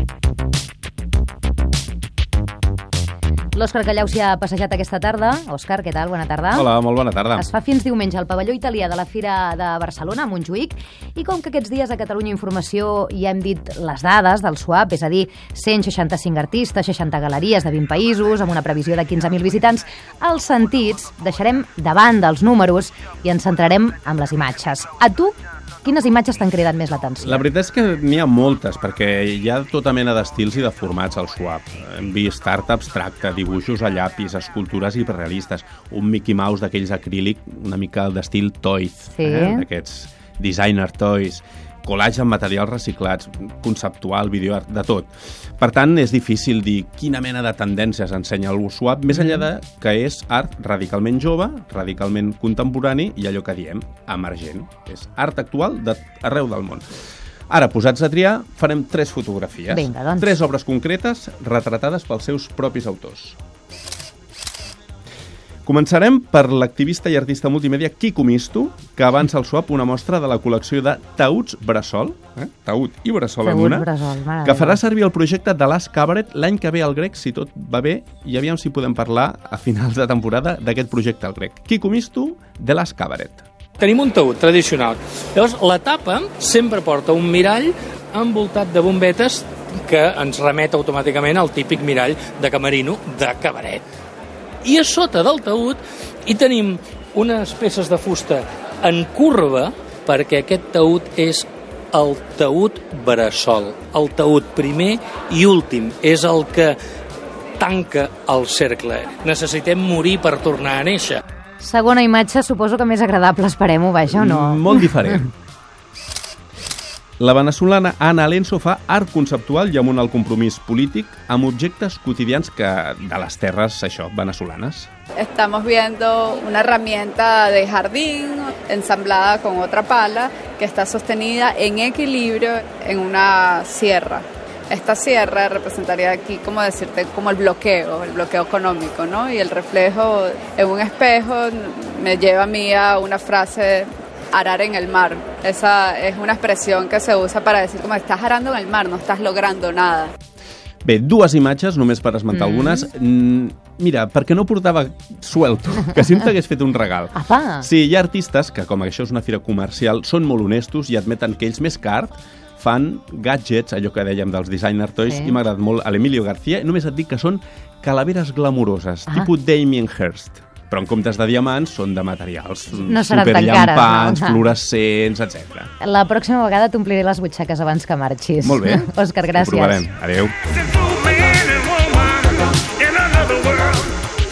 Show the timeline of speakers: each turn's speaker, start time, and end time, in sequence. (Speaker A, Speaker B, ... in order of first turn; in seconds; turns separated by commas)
Speaker A: 3.5-6.7, Speaker B: 6.5-7.5, Speaker A: 7.3-27.4, Speaker B: 27.2-56.9, Speaker A: 39.1-39.6, Speaker A: 49.1-49.4, Speaker B: 57.5-63.4, Speaker A: 59.7-60.3, Speaker B: 65.7-73.9, Speaker A: 73.4-74.8, Speaker B: 74.4-83.4, Speaker C: 83.8-93.8, Speaker C: 94.6-106.8, Speaker C: 107.6-111.2, Speaker A: 111.6-115.0, Speaker B: 114.1-115.3, Speaker B: 117.2-124.9, Speaker D: 125.2-150.1, Speaker B: 150.8-175.7, Speaker A: 152.3-152.9, Speaker A: 157.1-157.7, Speaker A: 165.1-165.3, Speaker A: 172.8-174.5, Speaker A: 175.8-179.9, Speaker B: 178.4-180.4, Speaker C: 180.6-184.0